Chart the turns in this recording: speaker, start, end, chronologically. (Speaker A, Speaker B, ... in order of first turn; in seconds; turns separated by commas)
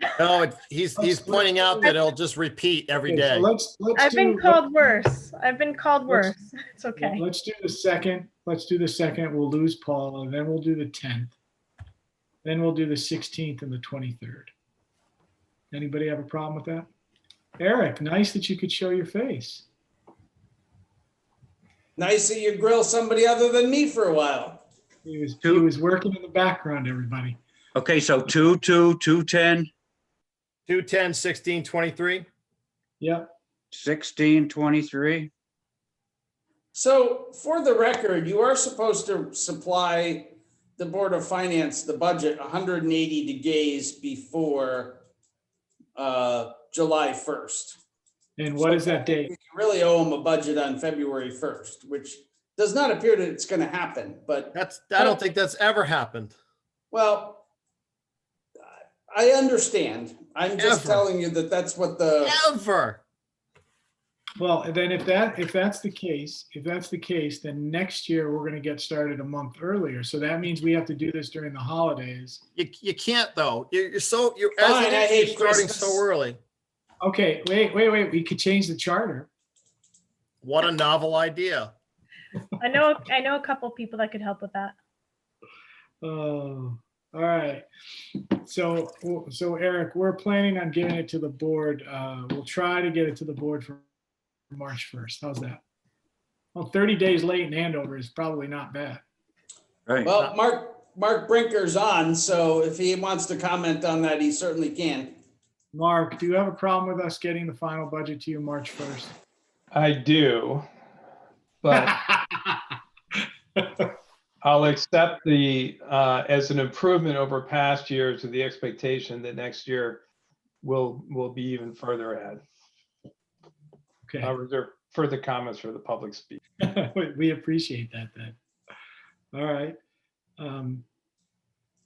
Speaker A: 0.2-3.5, Speaker B: 1.0-1.9, Speaker B: 3.1-4.7, Speaker C: 4.0-7.2, Speaker B: 6.1-6.3, Speaker B: 7.0-11.4, Speaker B: 12.4-14.5, Speaker B: 15.7-16.9, Speaker B: 17.6-19.6, Speaker D: 22.0-24.6, Speaker B: 25.1-27.4, Speaker E: 27.8-29.7, Speaker A: 30.7-32.3, Speaker B: 33.0-33.3, Speaker E: 33.7-35.3, Speaker D: 36.7-45.0, Speaker D: 46.0-47.8, Speaker B: 48.4-49.3, Speaker D: 48.6-55.2, Speaker A: 54.5-56.4, Speaker D: 56.9-57.4, Speaker D: 59.1-62.4, Speaker A: 60.6-61.0, Speaker A: 62.2-63.0, Speaker B: 64.4-72.4, Speaker A: 72.6-76.4, Speaker D: 74.6-76.0, Speaker B: 77.0-79.3, Speaker A: 80.4-81.7, Speaker C: 82.6-84.8, Speaker B: 86.0-87.7, Speaker B: 88.3-93.9, Speaker B: 94.5-95.6, Speaker B: 96.5-99.0, Speaker D: 100.0-105.2, Speaker B: 105.7-109.1, Speaker F: 109.7-110.7, Speaker F: 111.6-112.0, Speaker B: 111.7-112.5, Speaker F: 114.4-120.0, Speaker F: 120.6-122.4, Speaker B: 124.1-124.3, Speaker F: 124.2-126.4, Speaker B: 126.6-128.4, Speaker B: 129.3-129.8, Speaker B: 130.4-130.8